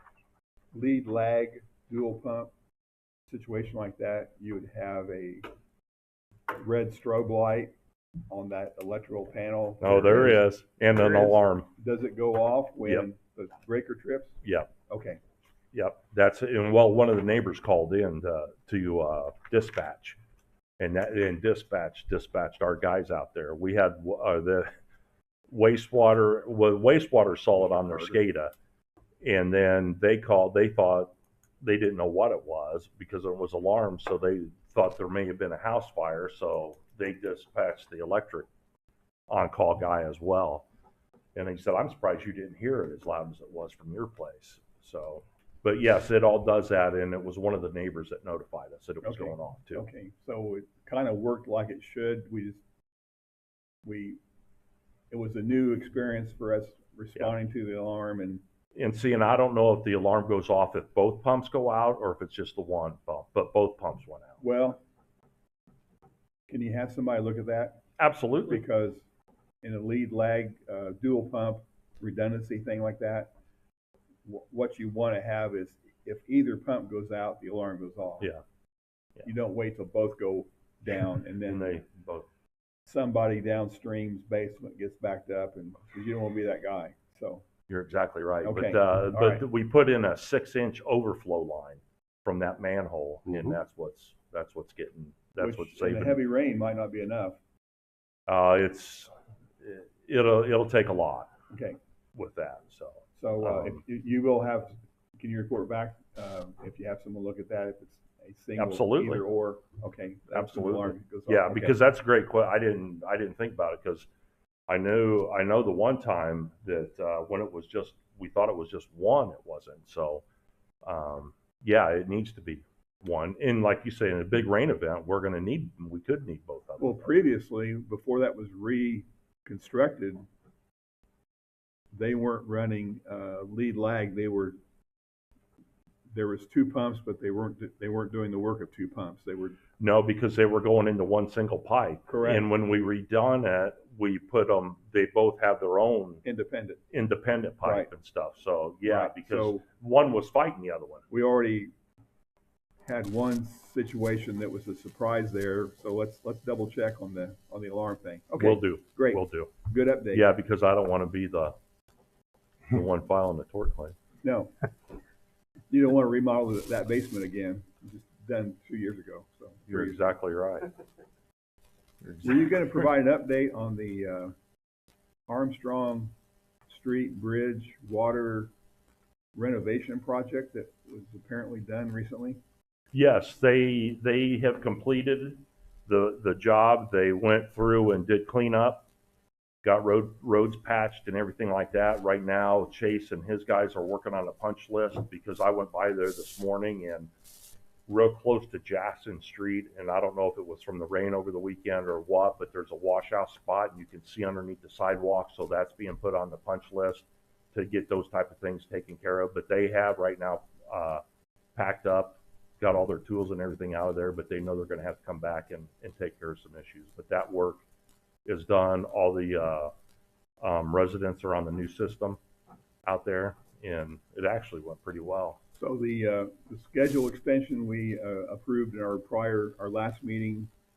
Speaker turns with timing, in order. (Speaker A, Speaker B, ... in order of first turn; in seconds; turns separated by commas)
Speaker A: 0.7-2.5, Speaker A: 3.3-5.5, Speaker A: 6.5-7.7, Speaker A: 8.3-14.3, Speaker B: 9.8-11.7, Speaker B: 14.4-14.7, Speaker A: 14.9-15.2, Speaker B: 15.7-20.2, Speaker B: 20.8-24.7, Speaker B: 25.5-28.5, Speaker B: 29.2-38.5, Speaker B: 39.3-40.6, Speaker B: 41.3-49.8, Speaker A: 49.0-52.6, Speaker A: 53.8-54.2, Speaker A: 55.1-58.4, Speaker B: 58.8-64.4, Speaker A: 64.4-64.8, Speaker A: 66.5-67.8, Speaker B: 68.0-68.6, Speaker A: 68.5-69.0, Speaker A: 69.6-73.3, Speaker A: 74.2-78.3, Speaker A: 79.2-81.8, Speaker B: 81.4-82.3, Speaker A: 82.8-87.4, Speaker B: 87.7-96.2, Speaker A: 88.4-89.4, Speaker A: 95.4-97.4, Speaker B: 98.3-99.1, Speaker B: 99.6-101.3, Speaker A: 101.5-101.8, Speaker B: 102.1-103.8, Speaker A: 103.2-111.8, Speaker B: 108.6-109.2, Speaker B: 110.3-114.1, Speaker B: 114.7-120.2, Speaker B: 120.8-127.1, Speaker A: 126.8-130.2, Speaker A: 131.9-134.6, Speaker A: 136.1-139.6, Speaker B: 139.8-146.2, Speaker A: 142.1-142.5, Speaker A: 146.2-146.8, Speaker B: 146.9-151.0, Speaker A: 147.6-147.9, Speaker A: 148.8-149.6, Speaker A: 151.1-151.7, Speaker A: 152.8-160.3, Speaker B: 158.4-159.5, Speaker B: 160.1-161.5, Speaker B: 162.7-163.9, Speaker A: 164.2-164.5, Speaker A: 165.7-170.0, Speaker B: 169.7-170.7, Speaker A: 172.2-174.3, Speaker A: 175.3-176.1, Speaker A: 176.7-178.5, Speaker A: 179.3-182.4, Speaker B: 182.9-188.9, Speaker B: 189.6-197.1, Speaker B: 197.9-211.0, Speaker B: 211.6-217.6, Speaker B: 218.2-219.7, Speaker B: 220.4-222.2, Speaker B: 222.8-225.4, Speaker A: 225.6-230.5